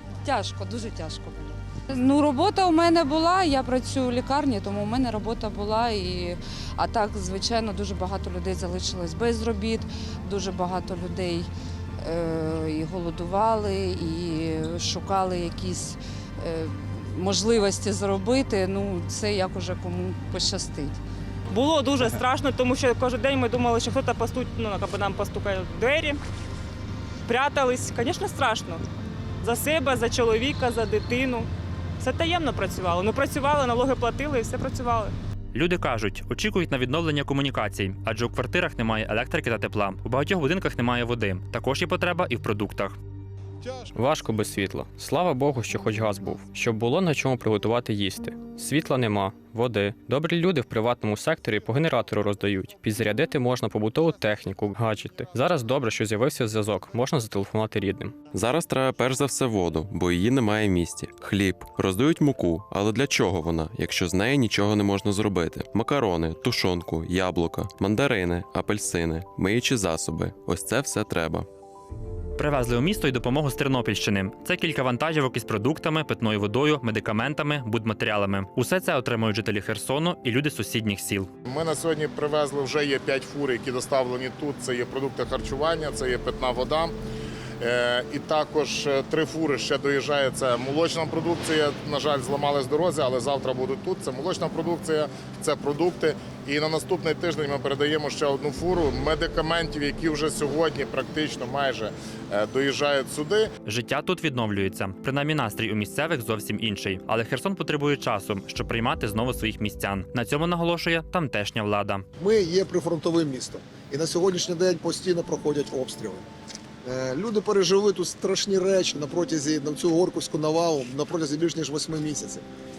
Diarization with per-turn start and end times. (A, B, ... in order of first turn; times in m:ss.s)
0:00.2-0:11.5 A
0:12.0-0:21.0 A
0:21.5-0:26.2 B
0:27.3-0:28.8 B
0:29.4-0:35.1 B
0:35.5-0:43.0 C
0:44.1-0:54.5 D
0:54.6-0:55.5 E
0:55.5-0:58.0 D
0:58.0-1:11.5 E
1:12.4-1:21.3 C
1:21.5-1:26.9 F
1:27.6-1:43.5 F
1:43.6-1:52.0 C
1:52.2-1:56.2 G
1:56.8-2:02.4 G